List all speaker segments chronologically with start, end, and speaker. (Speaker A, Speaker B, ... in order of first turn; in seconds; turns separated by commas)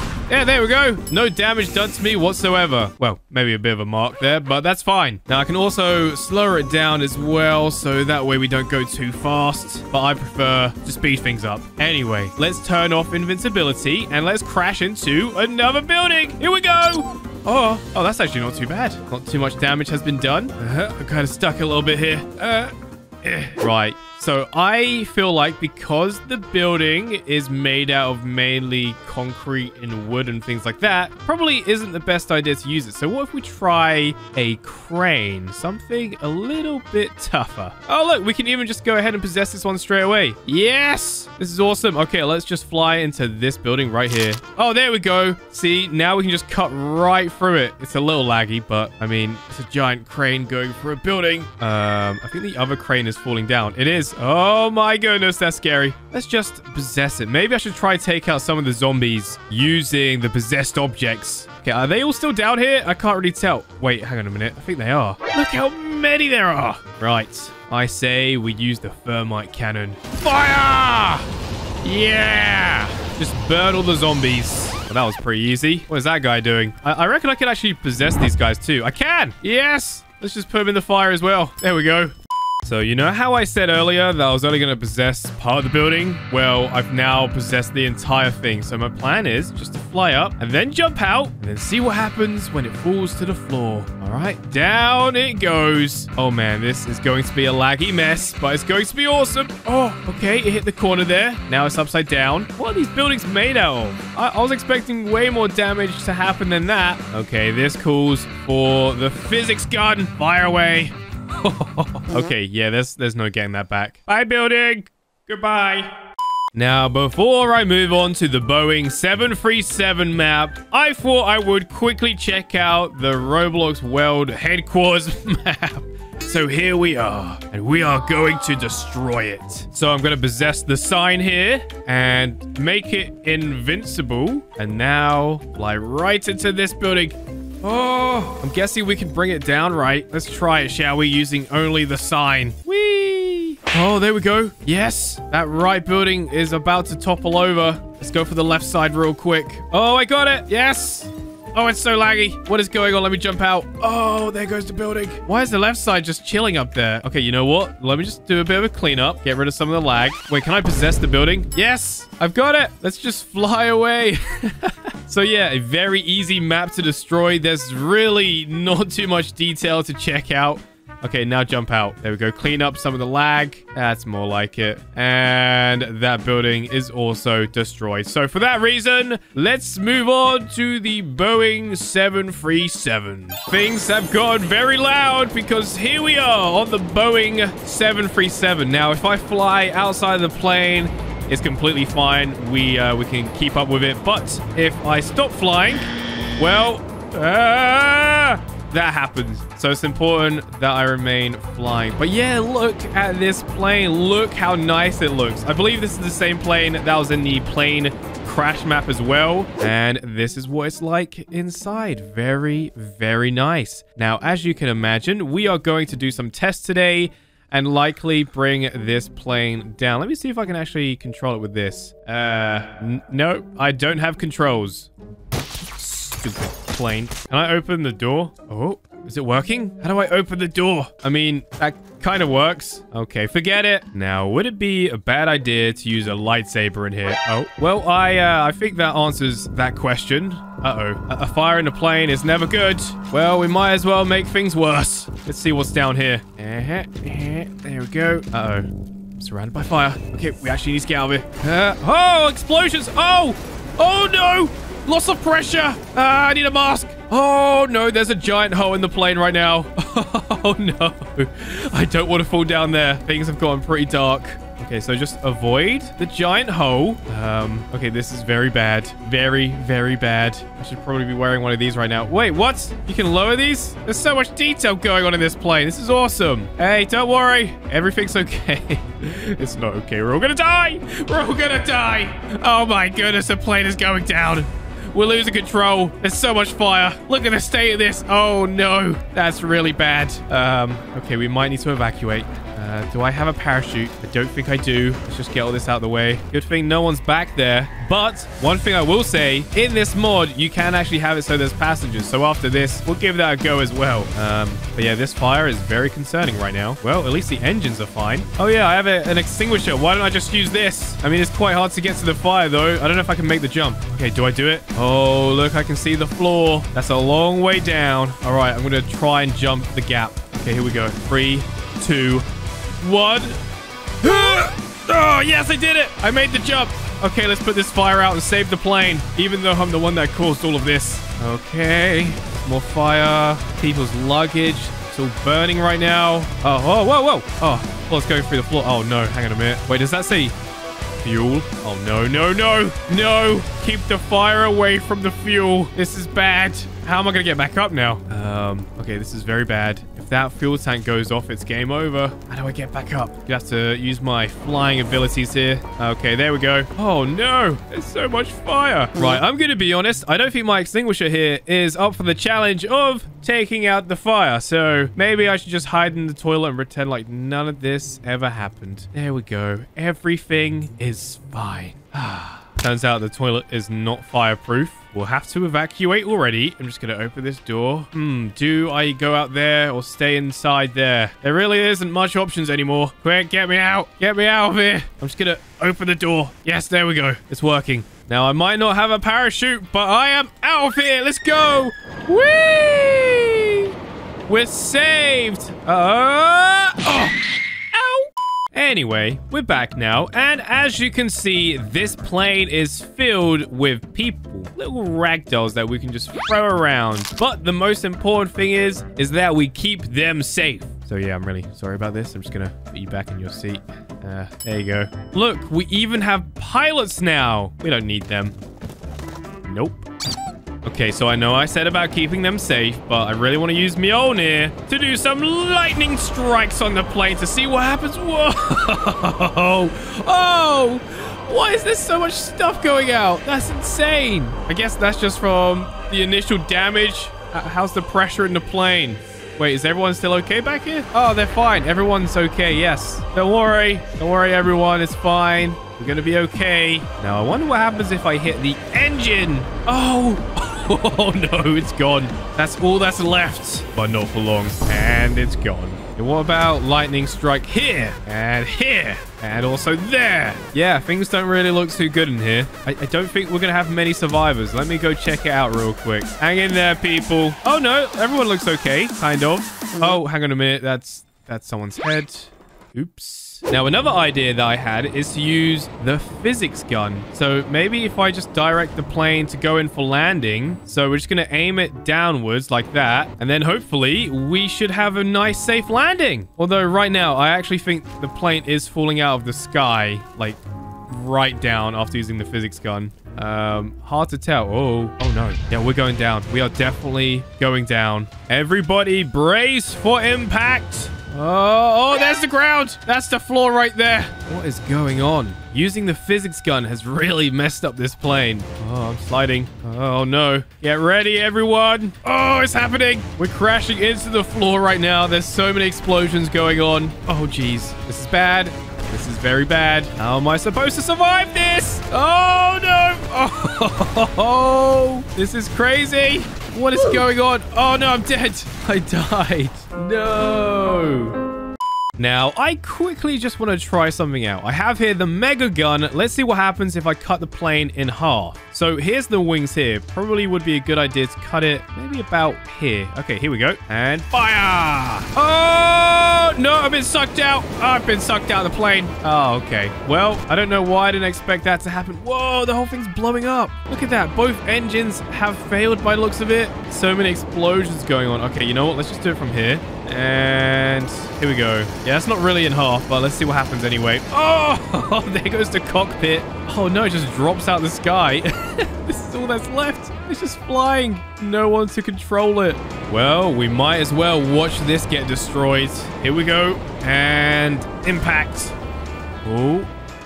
Speaker A: 0.3-71.3, Speaker A: 71.8-115.9, Speaker A: 116.5-195.9, Speaker A: 196.4-224.9, Speaker A: 225.8-323.4, Speaker A: 324.0-340.4, Speaker A: 341.0-393.7, Speaker A: 394.3-397.2, Speaker A: 397.7-418.4, Speaker A: 419.4-419.9, Speaker A: 420.6-531.2, Speaker A: 532.0-578.5, Speaker A: 579.2-579.7